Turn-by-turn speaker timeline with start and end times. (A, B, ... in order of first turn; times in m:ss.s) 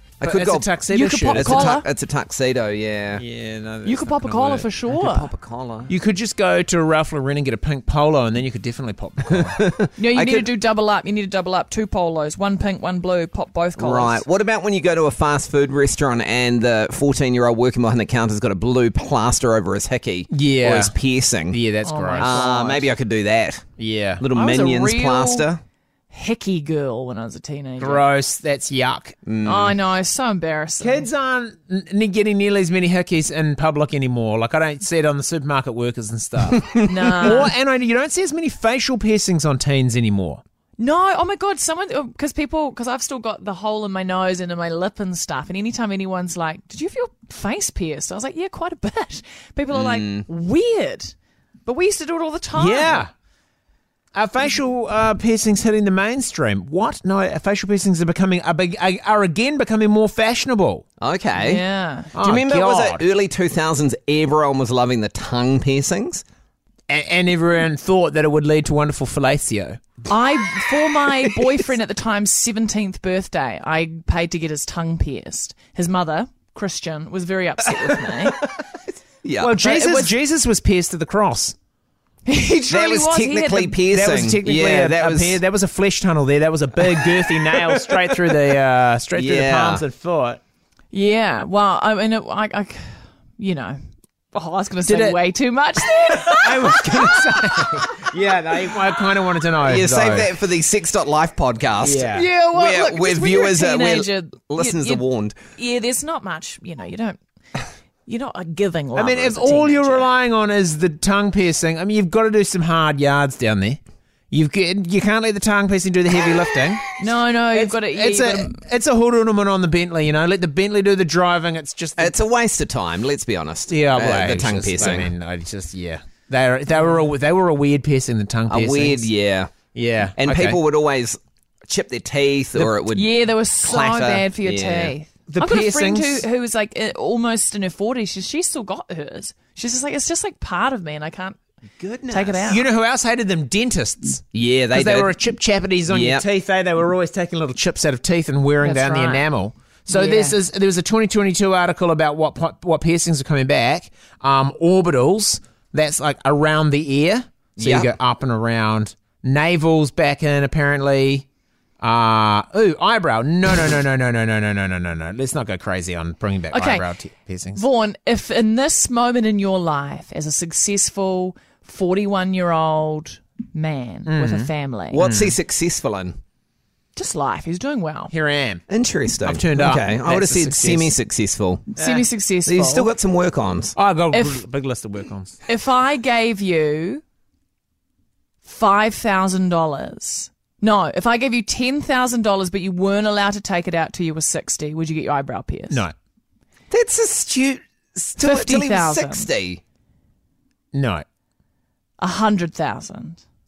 0:00.2-0:00.7 A
0:00.2-0:01.8 B
0:00.9-0:01.8 C
0:01.3-0:03.2 A
0:03.2-0:04.6 B
0:03.8-0:05.3 C
0:04.1-0:05.9 A
0:05.9-0:09.6 B
0:09.4-0:10.5 A
0:10.0-0:14.2 C
0:13.8-0:21.6 A
0:20.3-0:21.0 B
0:21.5-0:23.0 B
0:21.8-0:22.5 C
0:22.2-0:23.6 A
0:23.8-0:24.2 B
0:24.2-0:25.6 A
0:24.3-0:25.5 C
0:26.1-0:28.1 C
0:27.8-0:29.2 B
0:29.3-0:29.8 A
0:29.4-0:31.1 C
0:30.8-0:40.4 B
0:36.8-0:37.5 C
0:40.8-0:51.2 C
0:49.7-0:50.2 A
0:51.7-0:53.1 C
0:52.6-0:53.1 B
0:54.2-1:00.8 B
1:01.0-1:01.6 A
1:01.4-1:02.1 C
1:02.1-1:03.0 B
1:02.2-1:06.2 A
1:06.9-1:09.8 B
1:10.1-1:18.4 C
1:18.1-1:18.5 A
1:19.2-1:19.5 A
1:19.4-1:21.6 B
1:19.6-1:20.1 C
1:22.3-1:23.8 C
1:22.7-1:25.4 A
1:23.9-1:30.4 B
1:26.9-1:28.4 A
1:29.2-1:29.8 A
1:30.9-1:33.8 C
1:34.3-1:37.2 C
1:34.9-1:35.2 B
1:36.1-1:40.4 B
1:39.6-1:45.4 A
1:41.8-1:42.3 B
1:42.0-1:45.0 C
1:45.6-1:47.2 C
1:48.1-1:50.1 C
1:49.0-1:53.8 B
1:54.3-1:56.9 B
1:57.0-1:58.6 C
1:57.5-2:02.1 B
2:02.0-2:05.1 A
2:03.7-2:09.1 B
2:08.5-2:09.6 A
2:09.7-2:10.6 B
2:10.2-2:14.9 A
2:12.9-2:21.4 C
2:15.3-2:16.2 B
2:21.8-2:41.3 B
2:22.1-2:22.7 C
2:24.3-2:25.2 A
2:25.9-2:26.2 A
2:28.6-2:29.3 C
2:29.9-2:30.4 C
2:37.6-2:37.9 A
2:41.8-2:47.6 B
2:46.5-2:46.9 C
2:47.6-2:55.0 C
2:54.1-2:55.4 B
2:54.9-2:56.2 A
2:57.0-2:58.1 C
2:58.1-2:58.6 B
2:58.7-3:01.8 A
2:59.2-3:01.0 B
3:01.8-3:02.9 C
3:02.5-3:03.8 A
3:03.8-3:05.4 B
3:04.1-3:04.4 C
3:05.5-3:07.0 C
3:08.4-3:15.8 C
3:16.7-3:19.6 A
3:18.2-3:19.3 C
3:20.7-3:21.0 B
3:22.0-3:23.2 C